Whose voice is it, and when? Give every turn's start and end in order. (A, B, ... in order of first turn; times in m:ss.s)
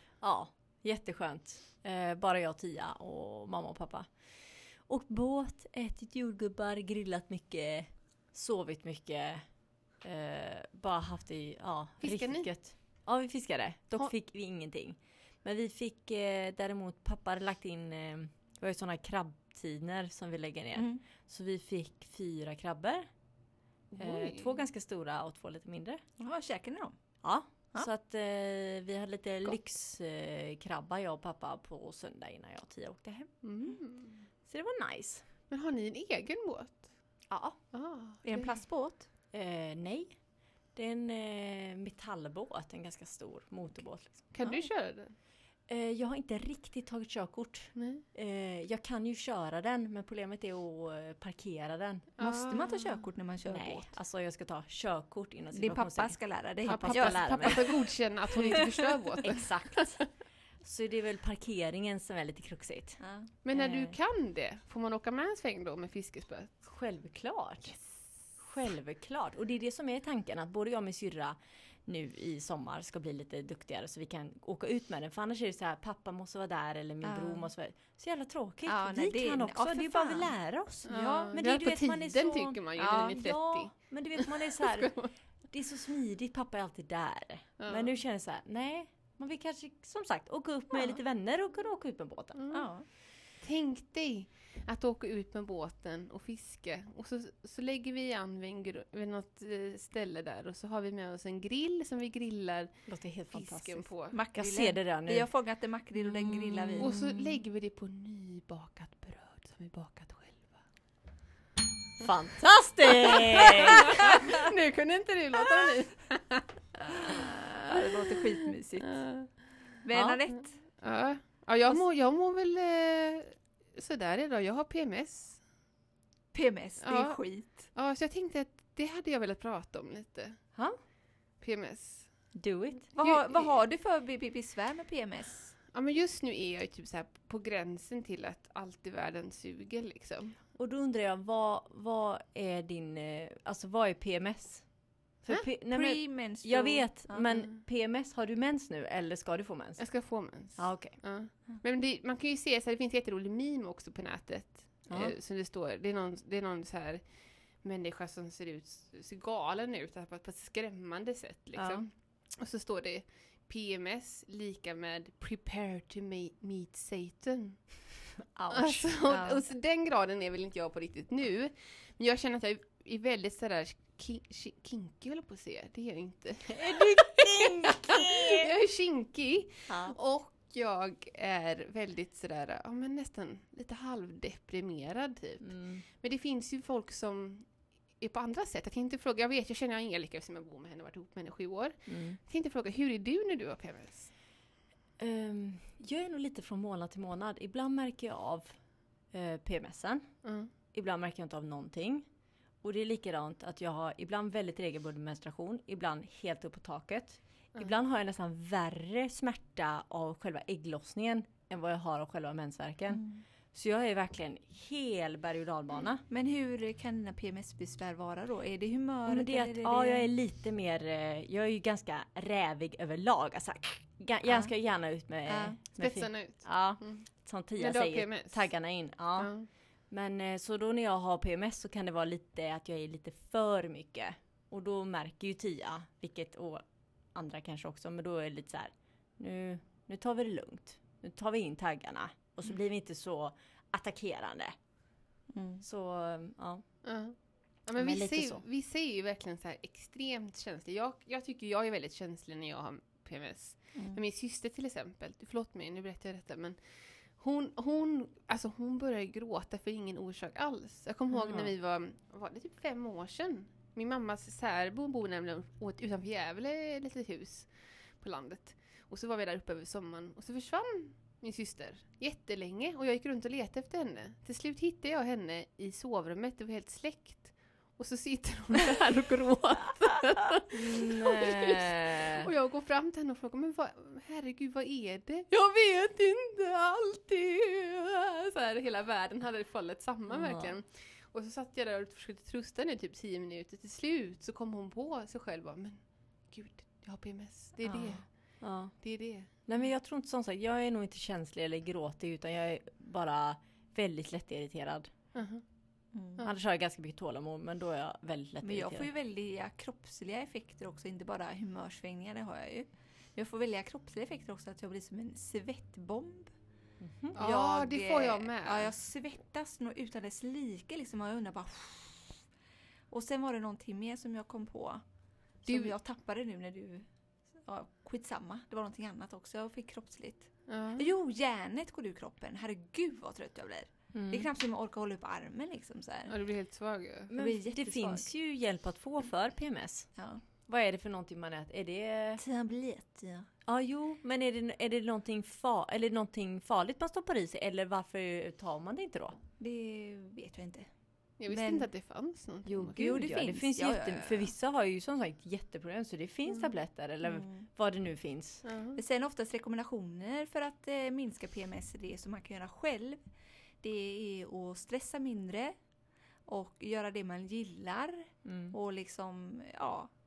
0:00.2-0:09.4 A
0:10.0-0:23.1 A
0:12.0-0:12.5 B
0:20.8-0:21.0 C
0:23.9-0:24.6 B
0:24.0-0:26.0 A
0:26.2-0:27.0 C
0:27.2-0:33.3 A
0:33.4-0:34.2 B
0:34.5-0:35.2 A
0:35.5-0:36.9 B
0:37.3-0:37.6 A
0:37.7-0:38.5 B
0:38.2-0:39.1 C
0:39.3-0:40.2 A
0:40.7-0:44.3 A
0:44.3-0:45.1 B
0:45.7-0:52.1 A
0:47.8-0:48.0 B
0:52.2-0:53.0 B
0:52.2-0:53.9 C
0:53.5-0:57.6 A
0:55.5-0:57.8 C
0:56.7-1:00.0 B
0:58.3-0:58.6 A
0:59.2-1:00.1 A
1:00.6-1:03.0 A
1:03.0-1:03.3 C
1:03.4-1:06.5 B
1:03.5-1:04.0 A
1:06.7-1:07.8 A
1:08.4-1:32.4 A
1:17.0-1:17.5 C
1:18.7-1:21.4 C
1:20.9-1:25.1 B
1:22.8-1:23.2 C
1:27.6-1:27.9 B
1:32.4-1:32.7 B
1:32.5-1:32.9 C
1:33.4-1:44.2 B
1:42.9-1:45.3 A
1:44.1-1:46.9 C
1:46.3-1:47.4 A
1:46.8-1:50.6 B
1:52.0-1:54.4 A
1:53.0-1:57.3 B
1:56.9-1:59.0 C
1:58.0-1:58.3 B
1:58.9-1:59.3 B
1:59.8-2:00.6 C
1:59.9-2:00.2 A
2:00.8-2:05.4 B
2:06.3-2:07.7 C
2:06.8-2:10.4 B
2:11.4-2:12.1 B
2:12.3-2:12.9 A
2:13.0-2:15.5 C
2:13.0-2:13.5 B
2:15.7-2:20.4 B
2:20.6-2:24.7 A
2:25.2-2:29.9 A
2:25.7-2:27.3 C
2:27.3-2:27.5 B
2:29.8-2:47.7 B
2:30.6-2:31.0 A
2:34.9-2:35.1 A
2:41.6-2:41.9 A
2:48.3-2:49.0 A
2:48.5-3:07.5 B
2:49.1-2:49.4 C
2:56.6-2:58.6 A
2:59.7-3:00.0 A
3:05.4-3:05.8 A
3:08.0-3:14.1 B
3:11.9-3:12.2 A
3:15.0-3:18.6 A
3:19.1-3:20.2 A
3:20.2-3:20.5 B
3:20.7-3:22.1 A
3:22.6-3:36.0 A
3:32.9-3:33.2 C
3:36.1-3:40.1 C
3:39.1-3:49.3 A
3:44.3-3:44.5 C
3:45.3-3:45.6 C
3:45.8-3:47.1 B
3:47.6-3:48.5 B
3:49.2-3:49.5 B
3:49.9-4:04.6 A
4:05.3-4:05.6 C
4:05.6-4:06.6 A
4:06.8-4:58.2 B
4:07.8-4:08.4 A
4:13.8-4:14.0 C
4:21.1-4:21.5 A
4:40.5-4:42.3 A
4:50.1-4:50.5 A
4:57.7-4:58.0 C
4:58.4-4:58.7 A
4:58.8-4:59.3 B
4:59.5-5:04.9 A
5:05.1-5:05.4 B
5:05.9-5:06.2 C
5:06.2-5:08.9 A
5:08.4-5:16.3 C
5:16.8-5:17.2 A
5:17.2-5:18.7 B
5:17.2-5:22.2 C
5:22.9-5:24.8 C
5:25.4-5:26.9 C
5:25.5-5:25.7 B
5:27.4-5:36.1 C
5:30.5-5:30.9 B
5:33.9-5:34.3 A
5:36.1-5:37.1 B
5:37.1-5:39.9 A
5:37.1-5:38.1 C
5:40.5-5:42.2 A
5:42.2-5:43.3 C
5:43.4-5:49.2 A
5:49.4-5:50.7 C
5:51.2-5:53.0 B
5:51.3-5:51.7 C
5:52.5-5:58.4 A
5:52.8-5:54.3 C
5:56.3-5:56.6 B
5:57.0-5:57.5 C
5:58.4-5:58.8 B
5:58.8-6:03.0 C
6:03.6-6:05.6 C
6:06.3-6:09.9 C
6:08.2-6:08.5 A